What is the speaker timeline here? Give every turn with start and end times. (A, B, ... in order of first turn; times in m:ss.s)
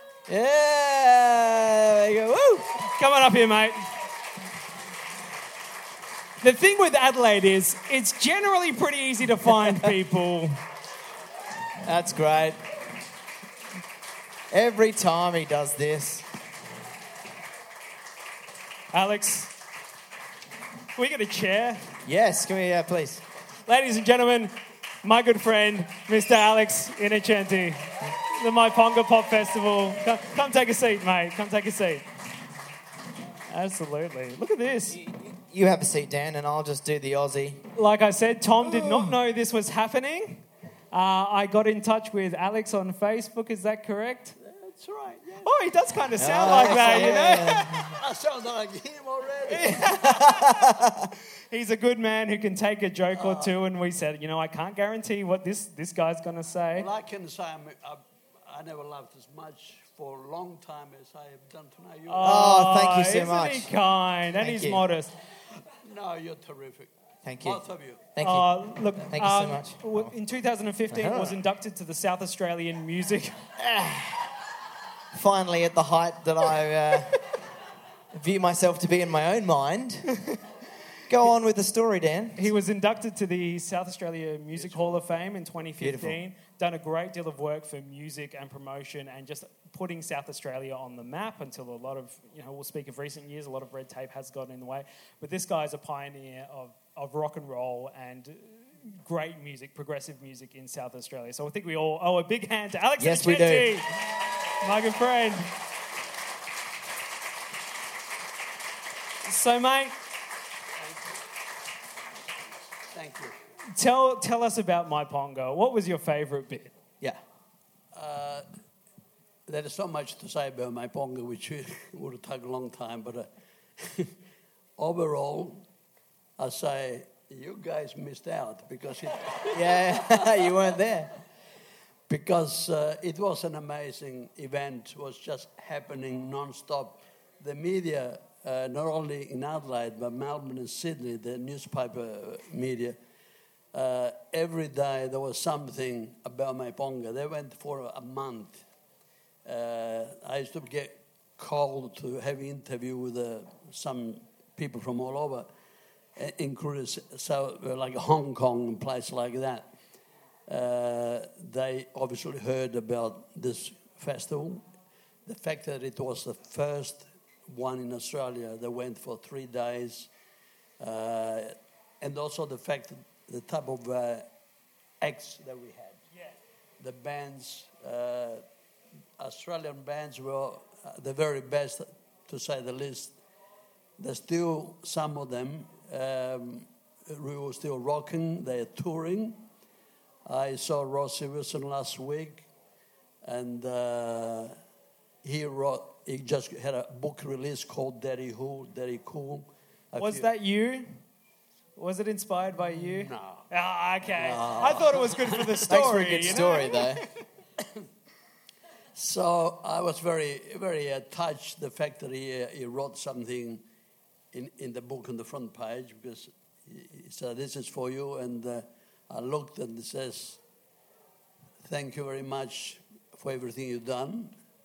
0:00.3-0:02.8 A
0:02.8-0:03.8 B
0:06.4-0:10.6 B
0:11.8-0:12.6 A
0:14.5-0:16.3 A
0:18.9-0:19.5 B
0:20.9-0:21.8 B
0:22.0-0:23.2 A
0:23.7-0:32.1 B
0:33.5-0:35.0 B
0:34.9-0:37.6 A
0:37.8-0:44.4 B
0:38.6-0:39.2 A
0:44.4-0:45.5 C
0:45.4-0:47.9 B
0:46.2-0:48.0 A
0:46.4-0:47.2 C
0:47.9-0:50.0 C
0:49.5-0:50.6 B
0:50.0-0:51.0 A
0:51.5-0:56.9 B
0:53.2-0:53.5 C
0:56.7-1:02.5 C
1:02.1-1:05.1 B
1:02.2-1:03.7 A
1:04.4-1:04.8 A
1:05.8-1:08.1 C
1:07.2-1:10.1 A
1:08.2-1:13.3 B
1:10.9-1:11.4 A
1:13.6-1:14.3 A
1:15.1-1:17.3 A
1:18.1-1:20.2 A
1:21.1-1:22.5 A
1:22.4-1:43.9 B
1:24.6-1:25.0 C
1:25.8-1:26.2 A
1:43.0-1:43.8 A
1:44.6-1:45.5 B
1:49.2-1:49.9 B
1:50.8-1:51.2 C
1:52.9-1:53.3 C
1:53.7-1:56.7 B
1:57.9-1:58.4 C
1:59.5-2:03.3 C
2:03.8-2:04.1 C
2:04.8-2:05.6 C
2:06.4-2:10.6 C
2:09.5-2:11.1 A
2:12.1-2:23.0 C
2:23.7-2:28.6 C
2:29.4-2:35.5 C
2:36.2-2:39.7 C
2:40.5-2:44.6 C
2:45.2-2:50.1 C
2:50.8-2:54.3 C
2:55.0-2:56.0 C
2:56.8-2:58.4 C
2:59.2-3:03.2 C
3:04.0-3:09.4 C
3:10.2-3:12.5 C
3:13.2-3:14.5 C
3:15.2-3:20.3 C
3:20.0-3:20.9 B
3:21.8-3:27.0 B
3:22.8-3:23.4 C
3:24.0-3:25.6 C
3:25.7-3:27.0 A
3:28.9-3:33.6 C
3:34.3-3:40.4 C
3:41.6-3:44.4 C